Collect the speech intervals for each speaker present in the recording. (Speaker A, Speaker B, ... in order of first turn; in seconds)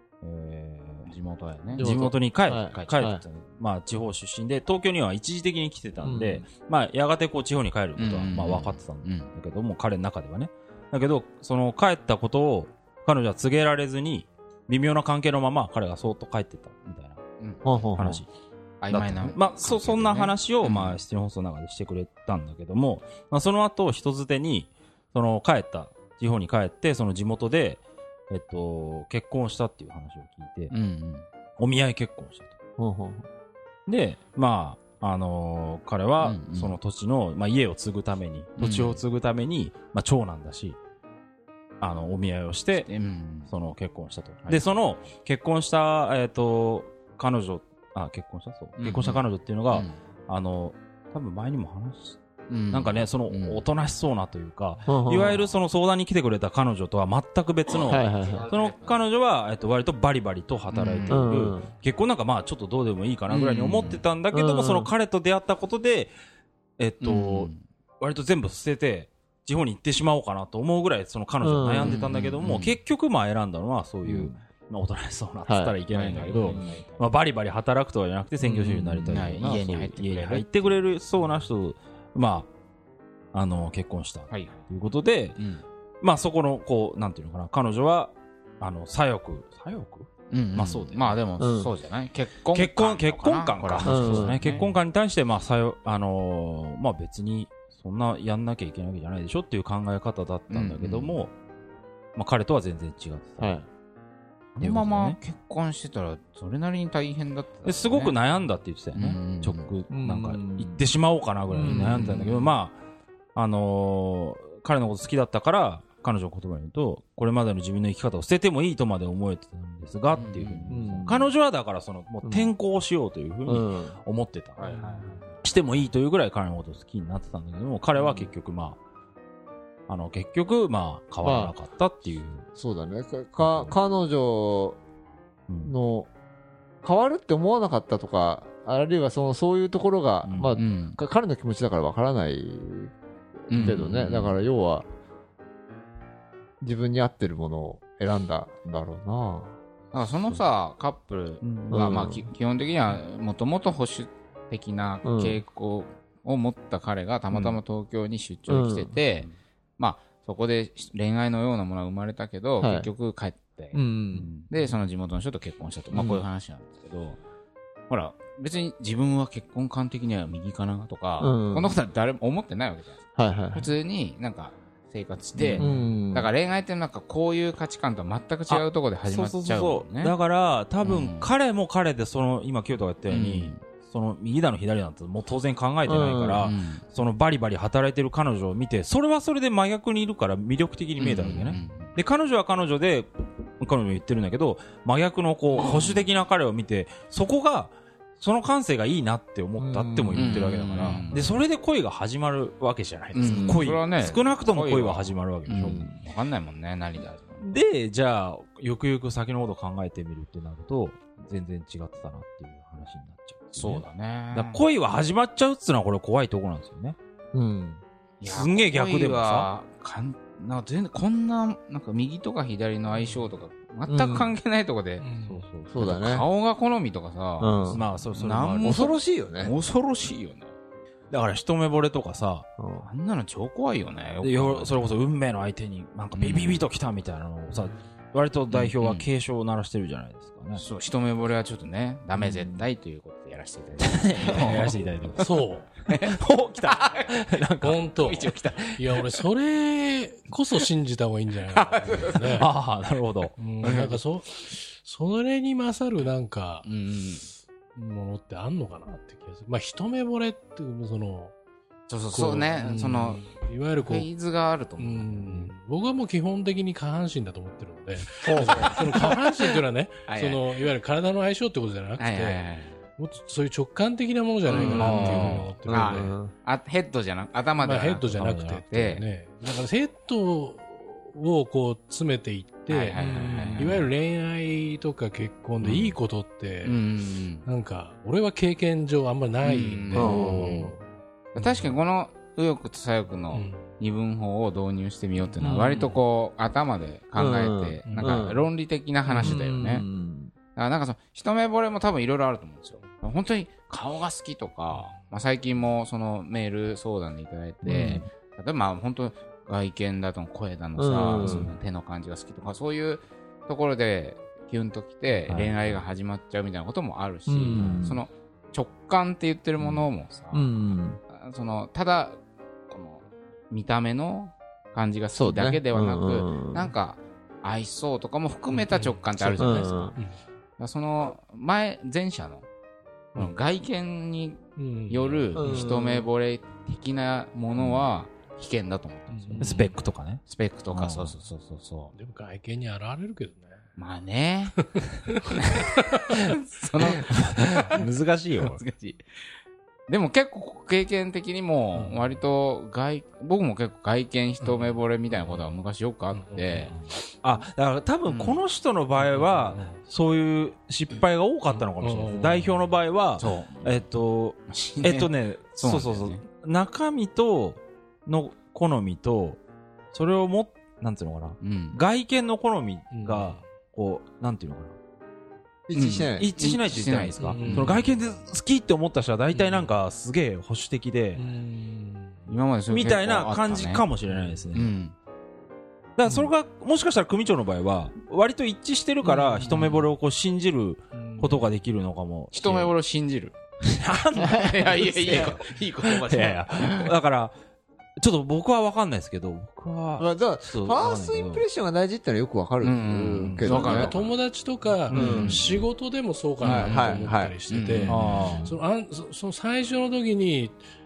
Speaker A: 0.2-1.1, 1.8-17.2, 18.0-18.3, 18.9-30.7, 31.6-32.6, 33.9-40.8, 41.8-42.9, 43.5-52.2, 52.7-66.1, 66.8-82.5, 83.3-85.4, 86.0-91.2, 92.5-101.3, 102.2-103.6, 104.6-105.2, 107.6-112.8, 113.3-124.8, 125.4-128.8, 129.9-132.5, 133.4-133.7, 135.5-135.7, 140.2-140.6, 151.4-151.8, 175.4-175.7, 178.5-205.9, 207.4-217.0, 218.2-219.5, 225.2-225.7, 227.7-228.8, 231.1-232.5, 234.2-240.6, 243.8-245.4, 245.9-248.2, 252.3-253.8, 274.7-275.5, 278.0-278.6, 283.1-283.9, 289.9-290.7, 311.2-311.5, 315.3-315.8, 317.5-317.8, 339.4-341.1, 347.1-348.6, 357.2-369.4, 369.9-374.8, 376.2-381.3, 382.7-384.7, 386.0-392.7, 393.6-395.3, 395.9-397.4, 398.0-401.4, 403.2-404.0, 404.9-405.6, 407.9-408.6
Speaker B: 1.1-1.9, 2.7-3.1, 8.0-9.3, 18.8-21.0, 30.7-31.3, 36.2-36.8, 38.6-39.0, 42.8-43.5, 48.8-49.9, 52.5-53.6, 58.4-58.9, 60.7-61.3, 67.0-67.6, 71.8-72.8, 75.9-77.1, 78.9-80.8, 84.3-84.6, 85.4-85.6, 90.3-94.7, 100.5-101.2, 104.6-108.2, 109.0-109.7, 111.7-112.5, 120.2-120.9, 124.6-125.3, 140.6-141.0, 143.5-144.4, 149.9-163.8, 164.3-167.2, 167.9-180.1, 180.8-181.3, 183.1-183.6, 186.4-186.8, 191.0-191.9, 200.2-201.3, 203.1-207.6, 213.6-214.6, 218.2-225.1, 225.8-230.5, 232.8-234.7, 236.1-236.6, 238.5-239.1, 240.6-245.2, 245.9-247.4, 247.9-249.0, 251.5-252.5, 253.6-254.0, 256.6-257.3, 261.9-263.2, 263.8-265.5, 270.1-270.4, 272.0-272.8, 274.5-279.1, 282.7-283.8, 286.6-287.5, 289.4-290.7, 291.3-299.9, 300.6-320.5, 321.1-322.2, 322.7-330.0, 330.6-332.4, 333.1-339.7, 340.3-341.9, 343.8-344.6, 345.4-347.9, 348.4-349.0, 349.9-356.8, 358.1-358.4, 363.2-363.8, 364.5-366.2, 371.4-371.8, 375.7-377.9, 382.3-383.9, 384.5-384.9, 392.3-393.4, 394.2-396.9, 402.6-404.0, 405.0-405.4, 406.4-408.0
Speaker C: 1.8-3.2, 6.0-6.5, 17.6-18.2, 32.8-33.3, 54.9-55.4, 57.8-58.5, 61.1-61.7, 63.3-64.9, 71.4-72.0, 74.0-74.4, 75.5-75.8, 76.3-76.8, 78.4-79.2, 91.4-91.7, 93.8-94.4, 103.4-103.7, 109.9-110.8, 111.5-112.5, 120.7-121.3, 122.2-122.5, 123.5-124.0, 131.2-131.5, 132.6-134.8, 135.6-136.1, 136.8-142.9, 143.5-144.8, 146.6-149.6, 151.7-152.2, 155.0-155.4, 158.5-158.9, 162.6-162.9, 163.7-164.3, 165.9-166.2, 171.2-171.8, 173.2-173.6, 175.6-176.3, 185.9-186.5, 199.6-200.5, 203.2-203.7, 205.6-206.0, 217.3-217.8, 223.9-224.3, 225.7-226.3, 227.4-227.8, 228.6-229.5, 232.6-232.9, 242.2-242.7, 268.2-269.1, 274.5-276.3, 289.9-290.6, 295.4-296.0, 297.1-298.4, 299.2-300.3, 307.6-308.1, 310.8-311.5, 317.3-318.0, 320.3-321.0, 325.1-326.7, 329.4-330.0, 335.4-336.1, 375.7-376.3, 386.1-386.3, 394.8-395.4, 400.0-404.0, 404.9-405.4, 406.4-407.4, 407.9-408.5
Speaker D: 225.0-225.5, 245.2-245.7, 247.6-252.5, 253.4-256.7, 257.8-261.3, 262.1-264.1, 264.8-272.4, 273.0-276.1, 277.6-286.8, 287.4-290.8, 291.4-291.8, 293.3-293.7, 297.9-298.3, 299.1-299.4, 304.7-305.0, 328.5-330.2, 334.6-335.6, 339.1-339.8, 341.9-343.6, 344.8-346.2, 351.7-352.1, 354.4-354.8, 356.1-356.8, 359.0-359.7, 361.5-362.7, 372.9-373.5, 377.2-377.8, 379.3-379.7, 381.2-382.3, 384.1-384.5, 390.9-391.5, 403.4-410.6